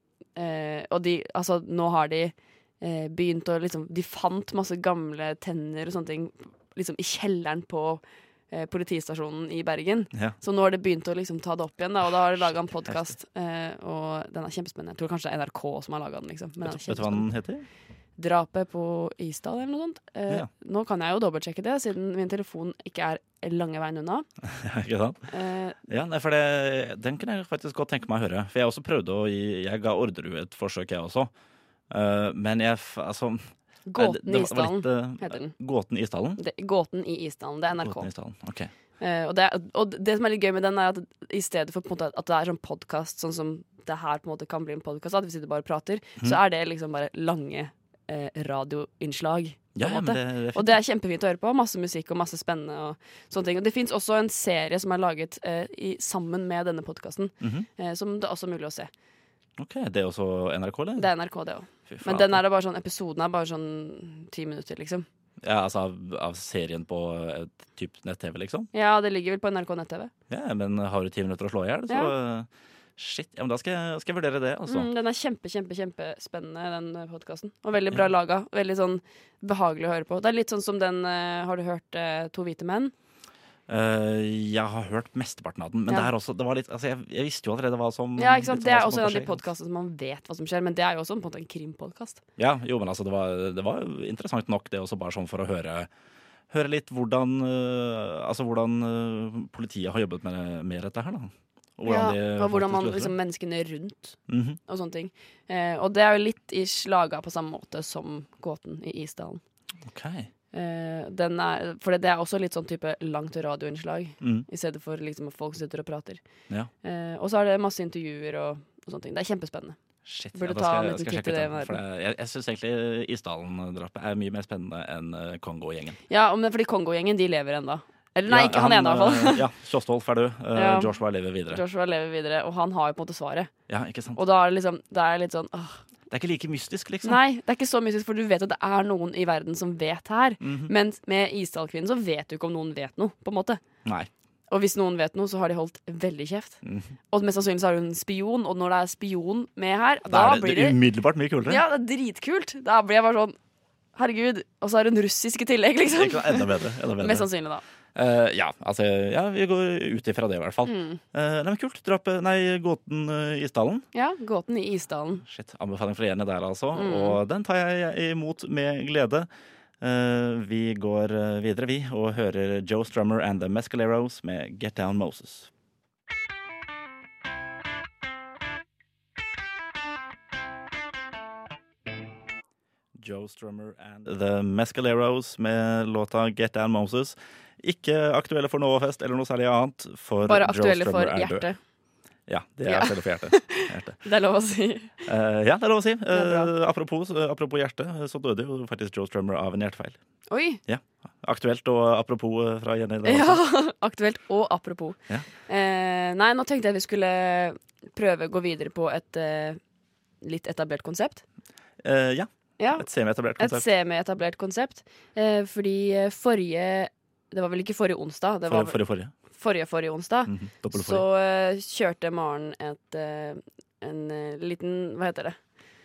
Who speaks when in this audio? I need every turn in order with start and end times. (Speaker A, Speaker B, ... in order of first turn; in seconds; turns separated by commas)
Speaker A: 0.4-17.3, Speaker B: 12.9-13.1, Speaker B: 16.6-17.7, Speaker A: 18.2-24.3, Speaker B: 24.4-25.3, Speaker A: 25.3-25.8, Speaker B: 25.9-31.3, Speaker B: 31.9-36.4, Speaker A: 33.9-35.5, Speaker A: 36.4-38.1, Speaker B: 37.8-38.7, Speaker A: 39.0-58.9, Speaker B: 49.8-50.8, Speaker B: 57.4-57.7, Speaker B: 59.6-61.1, Speaker A: 61.0-65.1, Speaker B: 61.9-62.4, Speaker B: 65.4-68.7, Speaker A: 68.7-70.1, Speaker B: 70.3-74.9, Speaker A: 74.7-82.9, Speaker B: 83.7-89.4, Speaker A: 88.2-92.2, Speaker B: 92.4-95.9, Speaker B: 96.5-103.2, Speaker A: 101.9-109.4, Speaker B: 104.3-104.6, Speaker B: 109.8-110.3, Speaker A: 110.5-116.2, Speaker B: 114.2-114.5, Speaker A: 116.8-119.8, Speaker B: 120.0-126.0, Speaker A: 120.3-121.8, Speaker A: 126.1-129.5, Speaker B: 128.3-131.6, Speaker A: 130.6-130.9, Speaker A: 131.5-133.5, Speaker B: 133.7-134.2, Speaker A: 134.2-135.8, Speaker B: 136.1-137.2, Speaker A: 137.0-143.6, Speaker B: 140.4-140.7, Speaker A: 144.5-146.6, Speaker B: 146.6-146.9, Speaker A: 147.1-150.8, Speaker B: 150.1-151.6, Speaker A: 151.5-153.4, Speaker A: 153.9-157.6, Speaker B: 155.9-157.3, Speaker B: 157.9-163.8, Speaker A: 160.7-161.0, Speaker A: 163.9-165.2, Speaker B: 165.2-169.3, Speaker A: 166.8-167.2, Speaker B: 169.8-175.5, Speaker B: 183.0-191.5, Speaker A: 190.2-191.6, Speaker B: 192.3-194.0, Speaker A: 192.7-195.1, Speaker B: 195.1-200.0, Speaker A: 196.1-196.5, Speaker A: 200.3-200.6, Speaker B: 200.7-203.4, Speaker A: 203.0-209.6, Speaker A: 210.2-211.2, Speaker B: 211.8-213.7, Speaker A: 212.6-212.9, Speaker A: 213.4-218.8, Speaker B: 218.5-219.1, Speaker A: 219.3-225.4, Speaker B: 220.3-221.1